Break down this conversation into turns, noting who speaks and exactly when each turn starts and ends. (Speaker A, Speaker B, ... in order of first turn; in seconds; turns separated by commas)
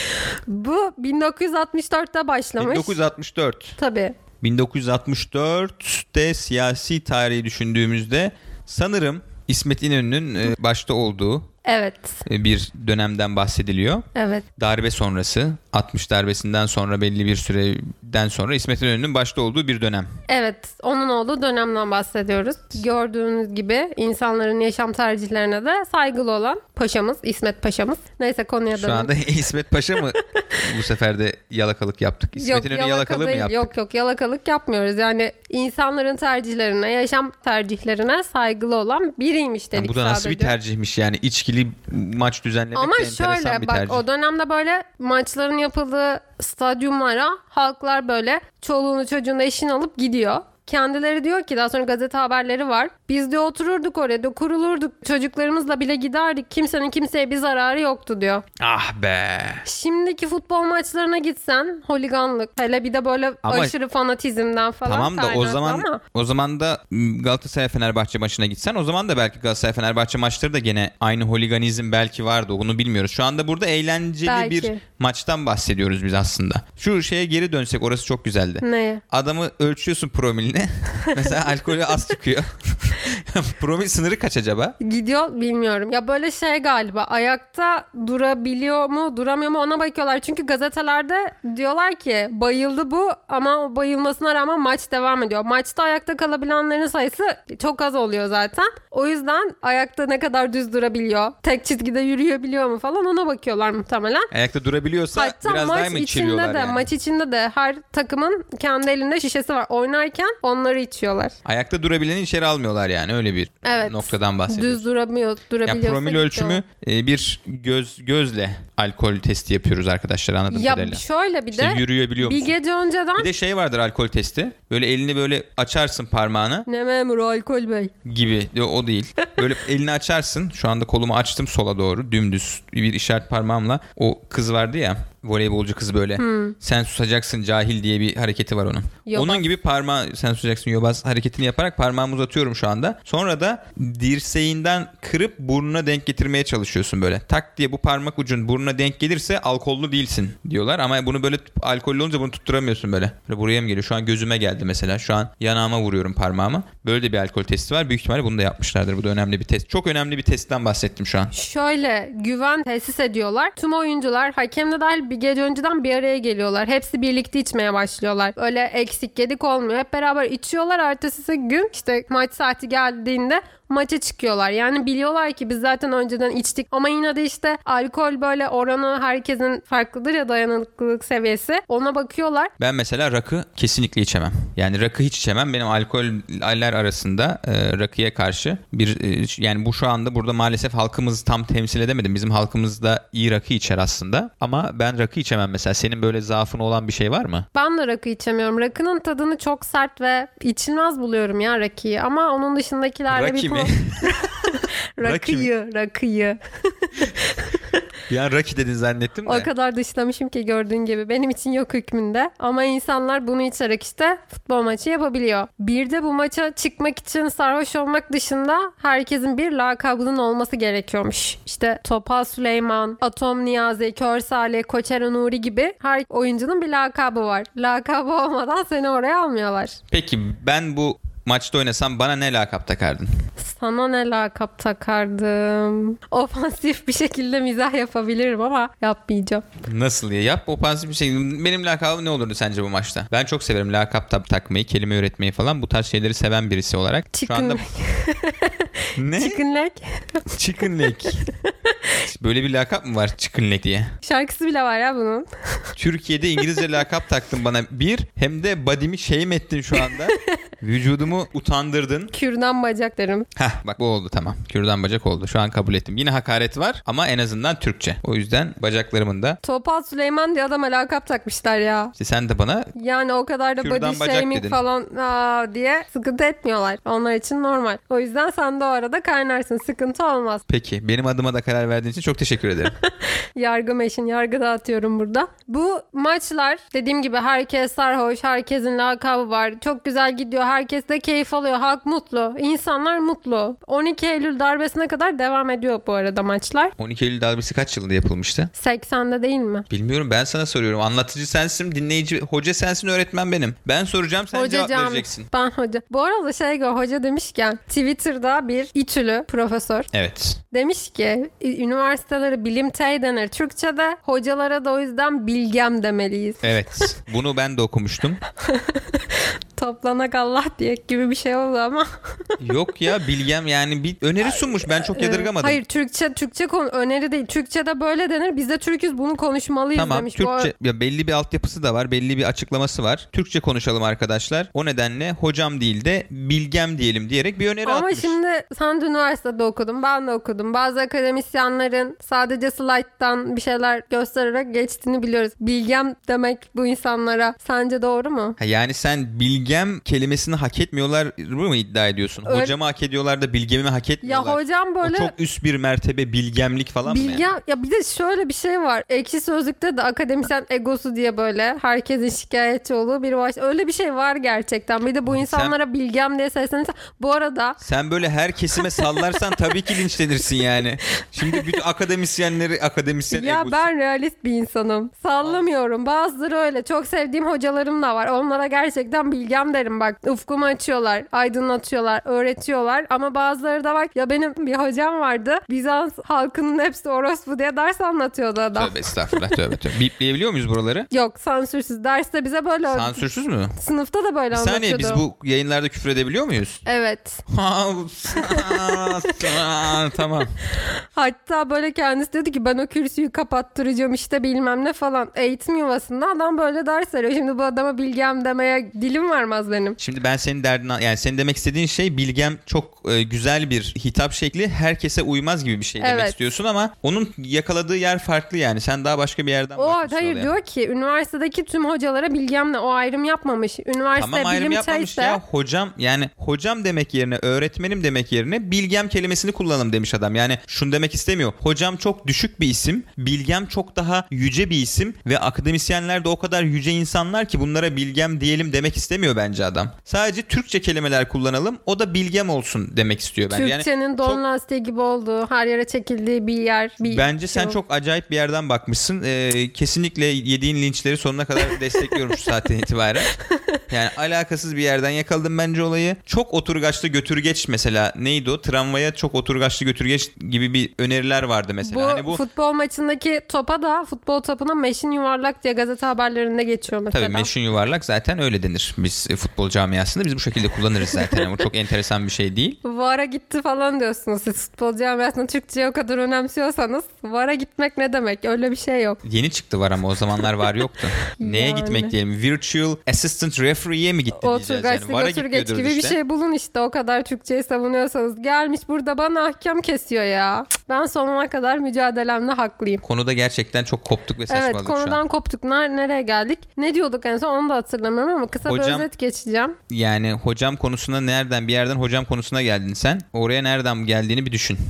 Speaker A: 0.2-3.0, Speaker B: 2.6-3.8, Speaker A: 3.8-4.2, Speaker B: 4.4-11.5, Speaker A: 11.7-12.2, Speaker B: 12.3-14.1, Speaker A: 14.2-14.4, Speaker B: 14.6-20.1, Speaker A: 20.3-29.1, Speaker B: 28.7-33.7, Speaker A: 30.2-30.6, Speaker A: 32.4-40.6, Speaker B: 39.8-44.0, Speaker A: 42.8-58.5, Speaker B: 58.6-59.6, Speaker A: 59.6-66.0, Speaker B: 63.4-63.7, Speaker B: 64.8-84.8, Speaker A: 74.3-74.8, Speaker A: 78.6-79.0, Speaker A: 81.1-81.4, Speaker A: 84.8-104.3, Speaker B: 104.3-106.8, Speaker A: 105.1-111.4, Speaker B: 111.5-114.8, Speaker A: 113.7-116.6, Speaker B: 115.7-122.6, Speaker A: 120.5-123.3, Speaker B: 123.2-126.7, Speaker A: 126.7-127.9, Speaker B: 128.1-161.3, Speaker A: 136.2-136.6, Speaker A: 139.1-139.4, Speaker A: 161.3-182.5, Speaker B: 182.6-197.5, Speaker A: 197.5-207.6, Speaker B: 203.1-204.2, Speaker B: 205.0-205.5, Speaker B: 208.1-209.5, Speaker A: 209.3-229.8, Speaker B: 229.9-233.1, Speaker A: 233.4-239.5, Speaker B: 239.7-247.6, Speaker A: 247.1-250.2, Speaker B: 249.0-249.4, Speaker B: 250.3-251.2, Speaker A: 251.2-251.9, Speaker B: 252.0-253.9, Speaker A: 254.0-255.3, Speaker B: 255.8-262.1, Speaker A: 259.8-260.2, Speaker A: 262.1-263.3, Speaker B: 263.4-269.4, Speaker A: 269.4-271.9, Speaker B: 272.0-272.7, Speaker A: 272.8-280.4, Speaker B: 273.6-274.6, Speaker B: 280.5-282.8, Speaker A: 283.4-296.7, Speaker B: 296.8-298.5, Speaker A: 298.5-299.7, Speaker B: 299.7-305.3, Speaker A: 304.3-309.9, Speaker B: 309.9-310.4, Speaker A: 310.5-316.6, Speaker B: 316.4-318.2, Speaker A: 318.4-322.4, Speaker B: 322.4-325.6, Speaker A: 324.2-330.5, Speaker B: 329.8-338.2, Speaker A: 337.6-348.4, Speaker B: 348.4-357.3, Speaker A: 352.2-352.6, Speaker A: 354.0-355.1, Speaker A: 356.9-367.6, Speaker B: 365.1-365.6, Speaker B: 367.6-373.6, Speaker A: 368.6-369.5, Speaker A: 373.1-389.3, Speaker B: 388.6-390.9, Speaker A: 390.9-395.0, Speaker B: 392.7-393.6, Speaker B: 394.3-396.6, Speaker A: 396.7-397.2, Speaker B: 397.3-400.3, Speaker A: 398.1-399.4, Speaker A: 401.0-409.8, Speaker B: 409.8-420.3, Speaker A: 415.8-416.2, Speaker A: 419.6-425.2, Speaker B: 424.0-444.2, Speaker A: 443.3-447.6, Speaker B: 446.8-453.1, Speaker A: 451.8-452.1, Speaker A: 453.2-453.6, Speaker B: 453.7-462.2, Speaker A: 461.6-467.3, Speaker B: 466.9-472.6, Speaker A: 472.6-479.0, Speaker B: 479.0-486.0, Speaker A: 481.1-481.9, Speaker A: 484.2-492.8, Speaker B: 492.8-495.0, Speaker A: 494.3-499.6, Speaker B: 498.5-498.9, Speaker B: 499.7-504.6